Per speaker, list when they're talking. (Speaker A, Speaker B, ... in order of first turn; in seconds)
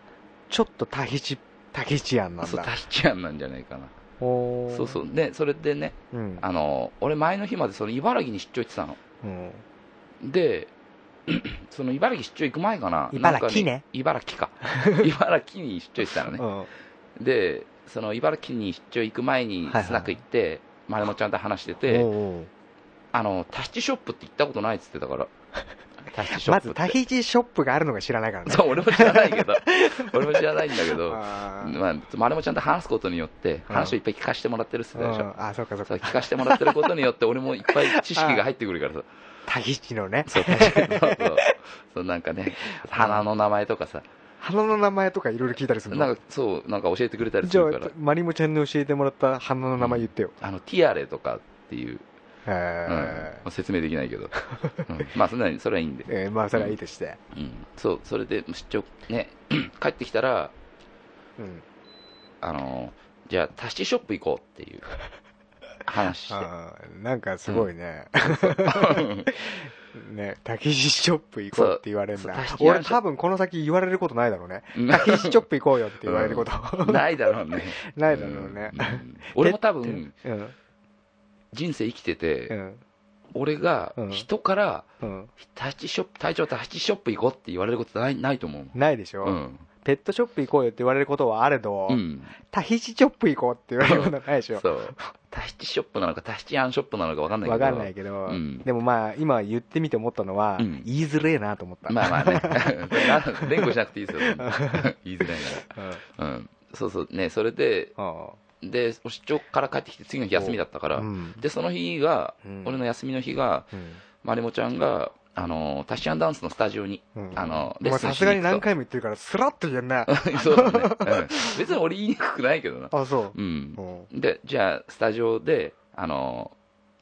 Speaker A: 0.5-2.7, 4.2-5.0, 6.1-6.5, 9.2-9.6, 13.1-13.8, 14.6-15.1, 16.3-16.7, 19.7-20.2, 21.9-22.5, 26.3-31.8, 33.7-34.0, 35.0-36.9, 37.7-38.4, 39.5-41.6, 42.6-43.3, 44.4-46.1, 47.4-50.3, 52.5-53.4, 54.5-54.9, 56.1-57.2, 61.4-61.6, 66.3-77.1, 77.8-80.5, 82.5-82.8, 84.0-84.2, 85.0-85.3, 88.7-95.1, 97.4-106.0, 108.0-108.4, 110.3-111.4, 112.4-112.8, 113.7-114.0, 117.2-121.6, 122.9-124.1
Speaker B: 2.4-3.9, 4.7-9.0, 10.2-10.7, 11.3-16.4, 17.2-22.1, 23.1-25.3, 26.1-27.0, 28.5-35.3, 35.9-39.1, 40.3-44.1, 45.9-47.9, 49.8-52.0, 52.9-54.3, 54.9-56.8, 57.3-60.5, 62.4-64.9, 65.9-66.5, 68.2-69.3, 71.5-73.0, 74.7-75.5, 76.0-80.1, 81.5-82.5, 83.3-84.9, 85.4-89.7, 91.9-92.3, 93.8-98.7, 100.6-100.9, 101.9-107.9, 108.6-118.6, 120.1-126.5